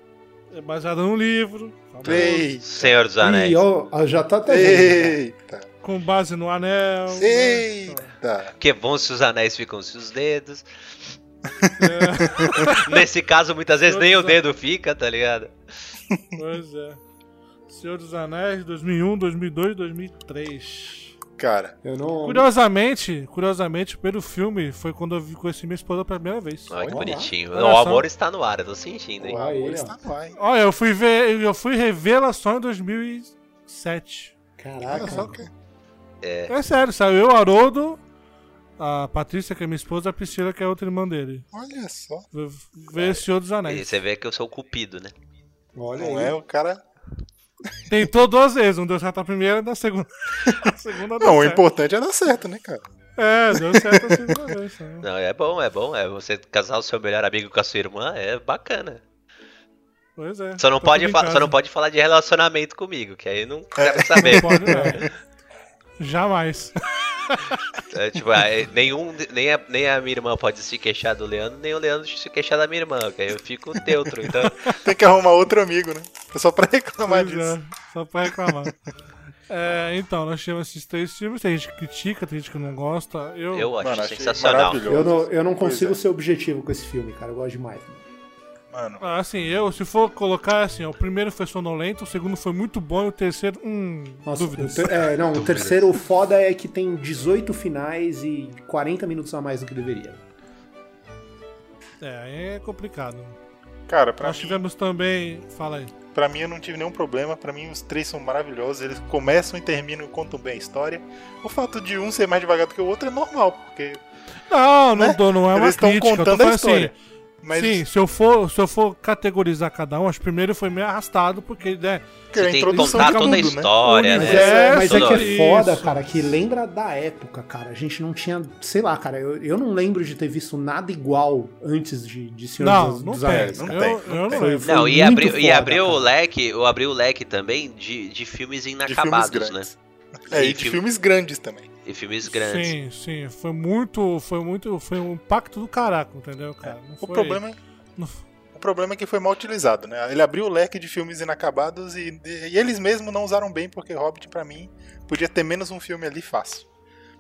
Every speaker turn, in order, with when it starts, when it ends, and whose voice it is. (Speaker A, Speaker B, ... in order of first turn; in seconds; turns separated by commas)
Speaker A: 0.5-2.5, Speaker B: 2.0-3.0, Speaker C: 2.0-3.6, Speaker D: 3.2-5.2, Speaker B: 4.4-5.7, Speaker A: 5.8-8.1, Speaker B: 7.1-8.5, Speaker C: 8.6-10.7, Speaker A: 11.8-13.0, Speaker B: 12.4-12.6, Speaker C: 12.8-15.5, Speaker A: 13.9-14.4, Speaker A: 16.3-17.0, Speaker A: 17.7-21.1, Speaker B: 21.4-21.7, Speaker D: 21.8-22.5, Speaker A: 22.2-26.8, Speaker C: 26.7-29.4, Speaker D: 26.9-27.3, Speaker A: 27.5-28.0, Speaker B: 29.2-30.4, Speaker D: 29.2-29.9, Speaker A: 30.3-34.4, Speaker D: 34.6-35.4, Speaker B: 34.8-35.5, Speaker A: 34.9-35.4, Speaker C: 36.2-36.5, Speaker A: 36.5-38.0, Speaker A: 38.8-41.5, Speaker B: 41.5-42.3, Speaker A: 42.3-43.9, Speaker C: 42.9-45.1, Speaker D: 45.8-46.4, Speaker B: 46.0-46.8, Speaker A: 47.9-51.6, Speaker B: 51.2-52.8, Speaker A: 53.2-55.1, Speaker B: 53.5-54.5, Speaker C: 55.0-59.0, Speaker A: 60.2-61.5, Speaker C: 60.6-65.1, Speaker B: 63.8-65.0, Speaker A: 64.2-65.0, Speaker A: 66.0-67.6, Speaker C: 67.9-74.6, Speaker A: 74.5-74.8, Speaker B: 74.6-77.6, Speaker A: 77.0-78.7, Speaker A: 79.5-83.7, Speaker C: 83.5-84.9, Speaker B: 83.8-86.0, Speaker D: 84.9-88.0, Speaker B: 88.7-89.0, Speaker A: 89.0-95.0, Speaker D: 94.2-100.2, Speaker C: 95.3-95.8, Speaker A: 102.0-103.4, Speaker B: 103.9-104.6, Speaker A: 104.2-105.9, Speaker B: 106.1-114.0, Speaker A: 114.5-117.0, Speaker B: 114.9-117.8, Speaker A: 117.5-122.1, Speaker B: 122.3-123.7, Speaker C: 122.3-125.4, Speaker A: 122.7-126.2, Speaker D: 124.1-136.1, Speaker A: 132.6-134.7, Speaker B: 133.3-134.4, Speaker C: 134.6-139.7, Speaker B: 138.8-139.7, Speaker B: 140.3-141.7, Speaker C: 140.3-140.8, Speaker C: 141.8-142.7, Speaker A: 142.2-147.4, Speaker B: 147.0-147.6, Speaker A: 148.0-148.2, Speaker B: 148.5-156.7